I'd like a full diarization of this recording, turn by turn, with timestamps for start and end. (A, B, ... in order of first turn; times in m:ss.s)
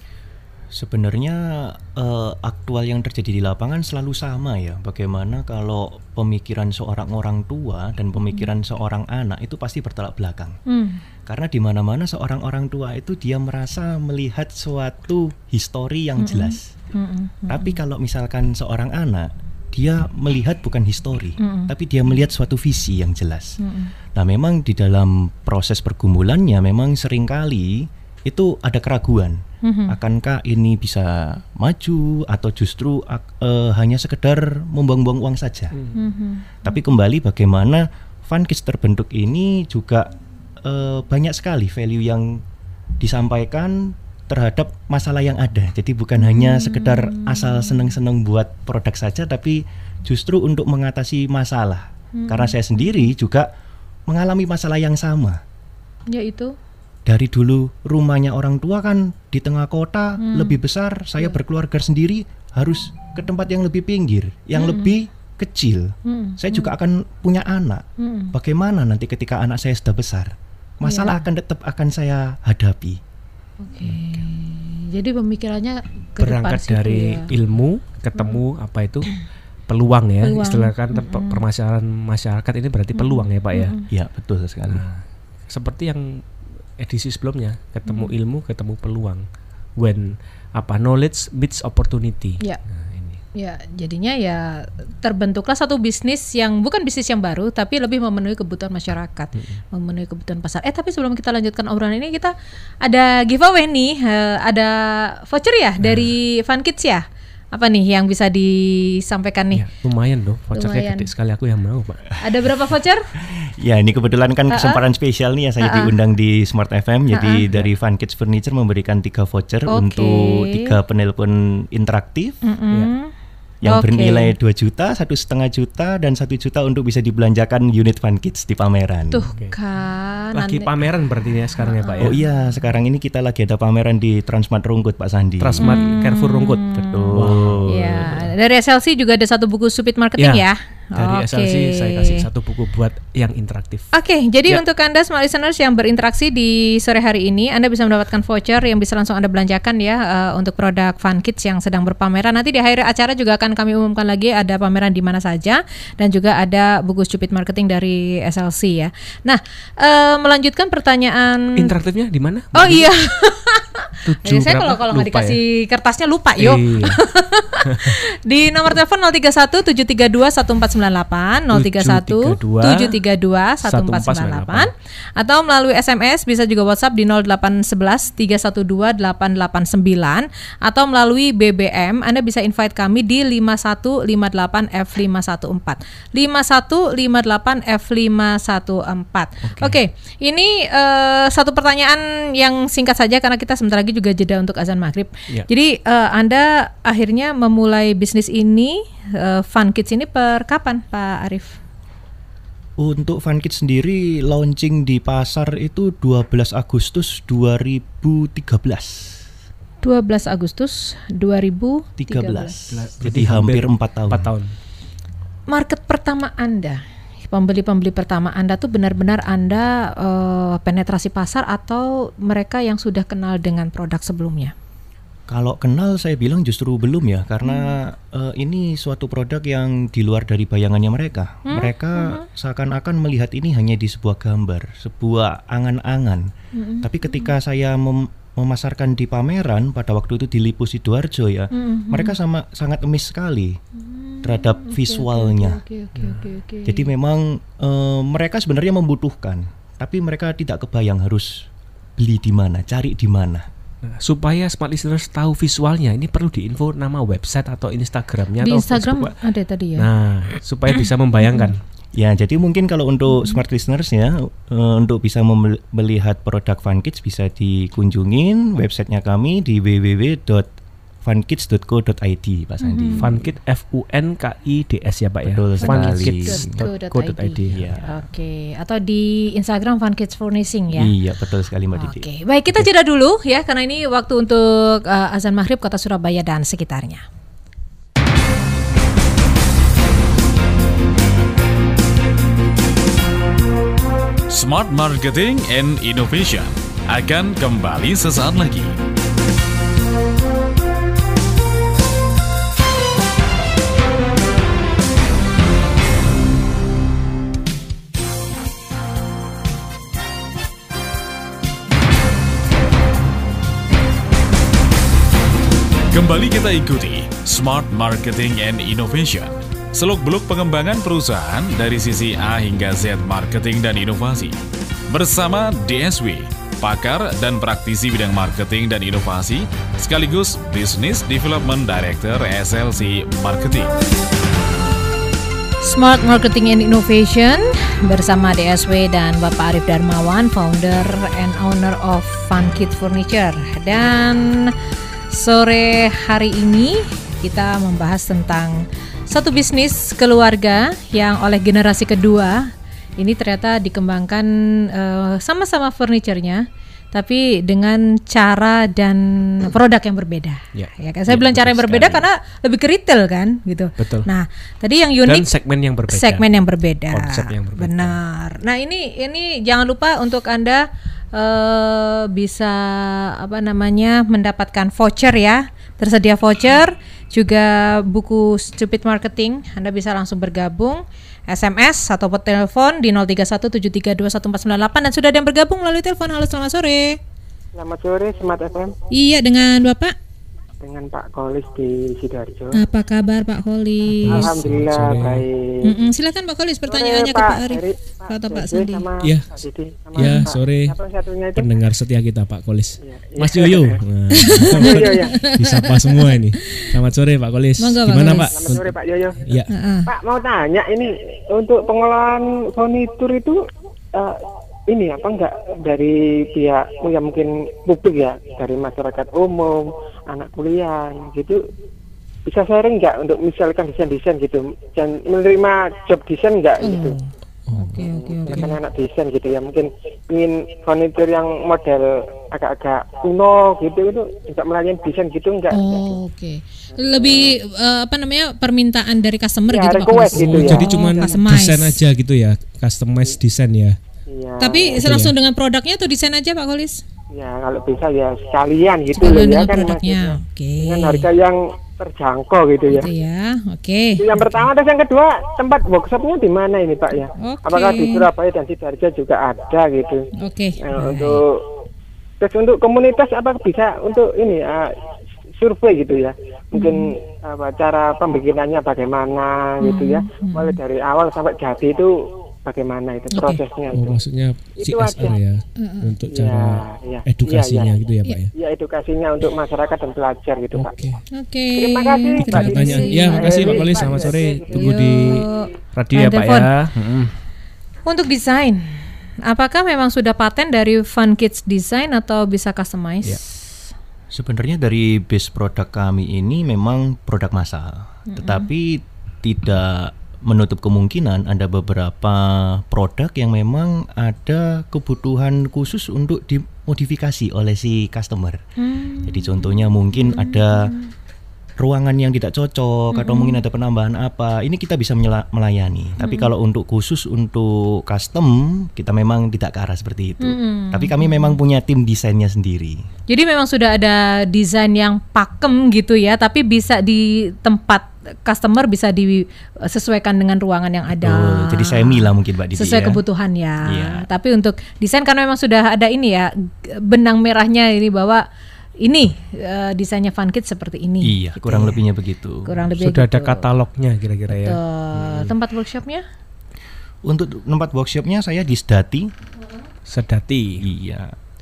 0:00.7-0:10.6 A
0:10.7-0:11.0 B
0:11.2-0:16.7 A
0:16.2-0:17.8 B
0:17.5-0:23.6 A
0:21.4-0:21.7 B
0:23.6-0:23.9 B
0:24.1-0:35.8 A
0:29.6-0:30.0 B
0:35.7-0:36.0 C
0:35.9-0:36.8 B
0:36.6-0:42.4 A
0:43.0-0:53.5 A
0:46.2-0:47.9 B
0:52.2-0:52.6 B
0:54.1-0:55.4 A
0:56.1-0:56.5 B
0:57.0-1:13.0 A
1:00.2-1:00.6 B
1:04.6-1:04.9 B
1:06.0-1:06.7 B
1:08.0-1:08.3 B
1:10.8-1:11.2 B
1:13.6-1:17.3 B
1:16.2-1:19.1 C
1:19.7-1:23.8 C
1:20.2-1:21.4 B
1:22.9-1:23.8 B
1:23.9-1:24.8 A
1:24.7-1:26.2 C
1:26.8-1:29.2 C
1:27.9-1:28.1 B
1:29.8-1:33.2 C
1:33.3-1:49.6 B
1:39.3-1:39.6 C
1:45.8-1:46.1 C
1:49.5-1:52.1 C
1:50.5-1:51.1 B
1:52.2-1:53.1 B
1:53.2-2:02.4 A
1:54.5-1:54.8 B
1:55.6-1:55.9 B
1:57.1-1:57.4 B
1:59.7-2:00.7 B
2:02.4-2:03.1 B
2:03.6-2:09.3 A
2:03.6-2:04.3 B
2:09.1-2:10.8 B
2:10.3-2:12.2 C
2:11.6-2:12.2 B
2:12.0-2:16.0 A
2:15.4-2:18.2 C
2:15.6-2:22.2 B
2:16.9-2:18.2 A
2:20.2-2:23.9 C
2:23.9-2:41.7 B
2:41.6-2:42.9 C
2:42.5-3:21.6 B
2:44.0-2:45.4 C
2:46.4-2:47.0 C
2:47.7-2:48.0 C
2:51.5-2:52.9 C
2:53.6-2:54.7 C
3:09.4-3:09.8 C
3:22.8-3:29.2 A
3:29.8-3:32.5 B
3:32.0-3:34.3 A
3:32.7-3:34.5 C
3:35.5-3:44.5 B
3:45.3-4:03.6 A
3:47.4-3:47.8 B
3:51.4-3:52.2 B
3:56.5-3:57.3 B
4:01.5-4:02.2 B
4:03.8-4:06.9 B
4:04.2-4:05.6 A
4:06.0-4:06.3 C
4:06.6-4:13.5 A
4:13.8-4:19.2 C
4:18.4-4:19.9 B
4:19.8-4:21.6 C
4:21.2-4:21.5 B
4:22.0-4:30.5 A
4:23.1-4:23.4 B
4:31.0-4:33.2 A
4:32.6-4:33.1 B
4:33.0-4:37.7 C
4:35.2-4:36.6 A
4:35.6-4:40.9 B
4:37.5-4:37.9 A
4:40.7-4:42.0 A
4:41.7-4:47.0 B
4:54.3-4:58.8 D
5:15.9-5:24.4 D
5:24.9-5:33.7 D
5:35.6-5:44.5 B
5:45.1-6:05.3 B
6:00.5-6:02.1 C
6:03.8-6:04.1 C
6:05.0-6:06.2 C
6:05.9-6:27.0 B
6:06.9-6:08.0 C
6:27.5-6:28.7 E
6:28.9-6:30.0 B
6:30.6-6:32.6 E
6:32.5-6:34.4 B
6:34.0-6:35.2 C
6:34.0-6:35.7 E
6:35.6-6:38.8 B
6:36.7-6:41.6 E
6:39.0-6:39.4 C
6:39.9-6:40.8 C
6:40.0-6:40.3 B
6:41.3-6:49.5 C
6:42.8-6:45.2 E
6:44.1-6:46.7 B
6:47.6-6:48.3 B
6:48.1-6:53.4 E
6:49.5-6:49.9 B
6:53.9-7:01.4 E
7:02.2-7:07.0 E
7:06.6-7:08.5 B
7:07.5-7:08.6 C
7:07.8-7:16.0 E
7:15.5-7:21.8 B
7:16.7-7:17.4 E
7:19.5-7:21.2 E
7:20.0-7:23.8 C
7:24.1-7:24.8 E
7:24.4-7:26.8 B
7:24.8-7:25.1 C
7:27.1-7:32.9 E
7:28.9-7:31.1 B
7:32.7-7:34.5 B
7:34.0-7:40.1 E
7:37.2-7:38.1 B
7:40.2-7:41.2 B
7:40.6-7:41.4 E
7:42.2-7:44.7 E
7:45.4-7:51.9 E
7:46.5-7:46.9 B
7:49.6-7:50.6 B
7:52.4-7:54.0 E
7:53.2-7:58.3 C
7:54.6-7:55.2 E
7:55.6-7:56.0 B
7:56.1-7:57.7 E
7:58.3-8:00.9 E
8:00.5-8:01.0 C
8:01.1-8:06.5 B
8:01.5-8:04.9 E
8:02.2-8:07.1 C
8:07.8-8:13.5 B
8:14.1-8:28.4 A
8:18.1-8:18.5 B
8:28.6-8:30.9 B
8:29.0-8:30.7 A
8:31.6-8:42.8 A
8:32.9-8:33.4 B
8:36.0-8:36.3 B
8:40.2-8:41.4 B
8:43.1-8:58.2 B
8:50.9-8:53.0 A
8:53.6-8:54.0 A
8:58.8-9:01.8 B
9:01.0-9:02.6 A
9:02.4-9:03.5 B
9:02.8-9:05.3 C
9:04.3-9:06.0 B
9:07.0-9:09.1 A
9:09.9-9:10.6 C
9:10.6-9:11.1 A